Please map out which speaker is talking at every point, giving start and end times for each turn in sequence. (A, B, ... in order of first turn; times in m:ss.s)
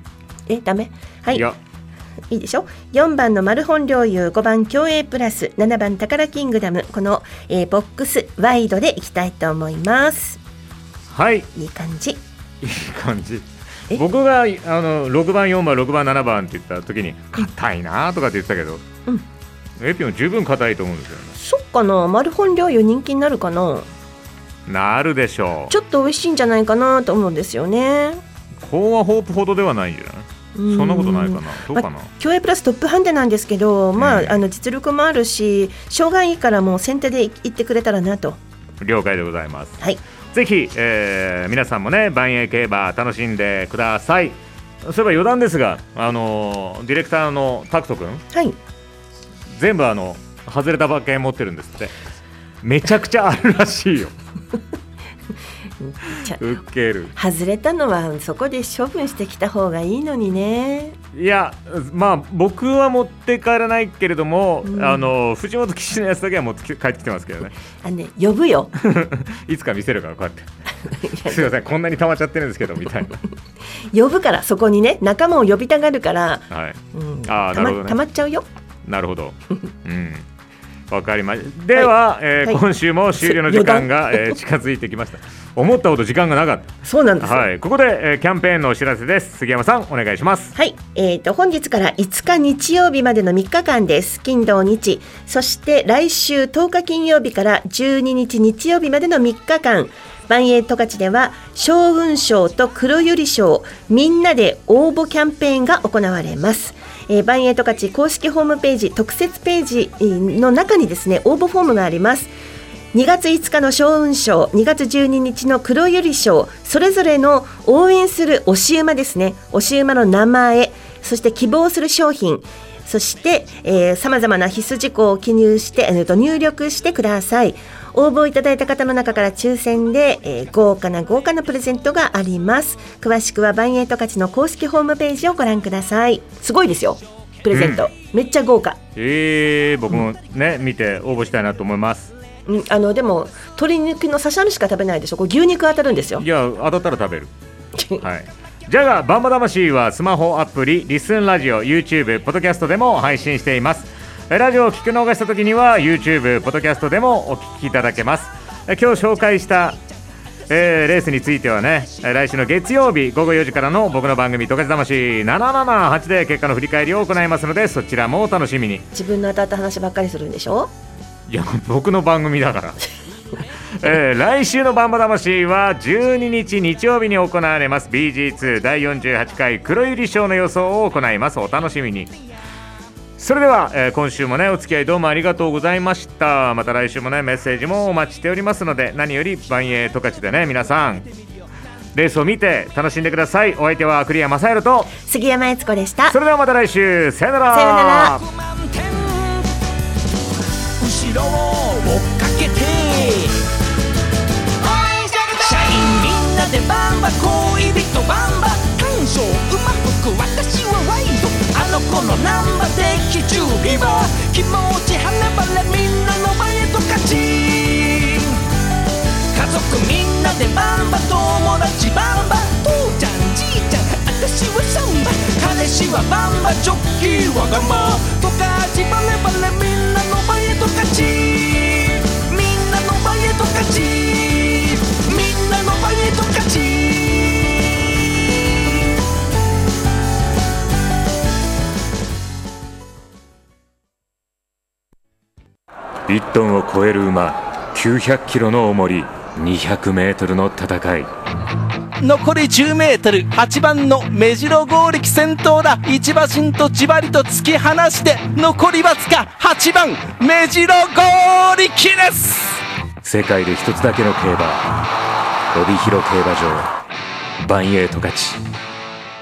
0:00.5-0:01.4 A
0:01.3-0:01.6 B
0:02.3-0:10.4 A
0:11.1-0:11.5 B
0:11.5-0:12.2 A
0:12.6-0:18.8 B
0:19.8-0:21.4 B
0:21.4-0:23.9 A
0:24.7-0:25.7 B
0:25.7-0:28.2 A
0:28.6-0:32.1 B
0:30.6-0:38.4 A
0:34.0-0:34.4 B
0:38.8-0:39.8 B
0:40.3-0:48.2 B
0:48.3-0:48.6 A
0:49.6-0:51.9 B
0:52.6-0:54.1 B
0:55.8-0:56.4 A
0:56.4-0:57.1 B
0:57.2-1:01.0 A
1:01.1-1:07.5 B
1:04.6-1:05.1 A
1:07.8-1:08.7 A
1:08.8-1:10.5 B
1:11.0-1:11.5 A
1:11.3-1:13.2 B
1:13.9-1:18.4 A
1:16.5-1:18.0 B
1:18.8-1:20.2 B
1:20.9-1:30.5 B
1:23.2-1:24.2 A
1:26.9-1:27.4 A
1:30.6-1:52.3 A
1:52.9-2:18.8 A
2:17.5-2:17.8 B
2:19.0-2:22.1 B
2:22.5-2:26.2 A
2:26.2-2:27.3 B
2:28.0-2:39.8 B
2:40.5-2:48.8 B
2:48.9-2:50.7 A
2:51.3-2:52.8 B
2:53.8-3:02.1 B
3:03.2-3:11.0 B
3:11.9-3:14.9 B
3:15.0-3:16.2 A
3:16.1-3:18.2 B
3:17.5-3:18.2 A
3:18.2-3:19.5 C
3:20.8-3:23.4 C
3:24.6-3:38.4 C
3:39.3-3:57.5 C
4:06.1-4:11.1 D
4:12.0-4:22.6 E
4:23.0-4:24.6 D
4:25.5-4:26.7 D
4:27.4-4:28.4 D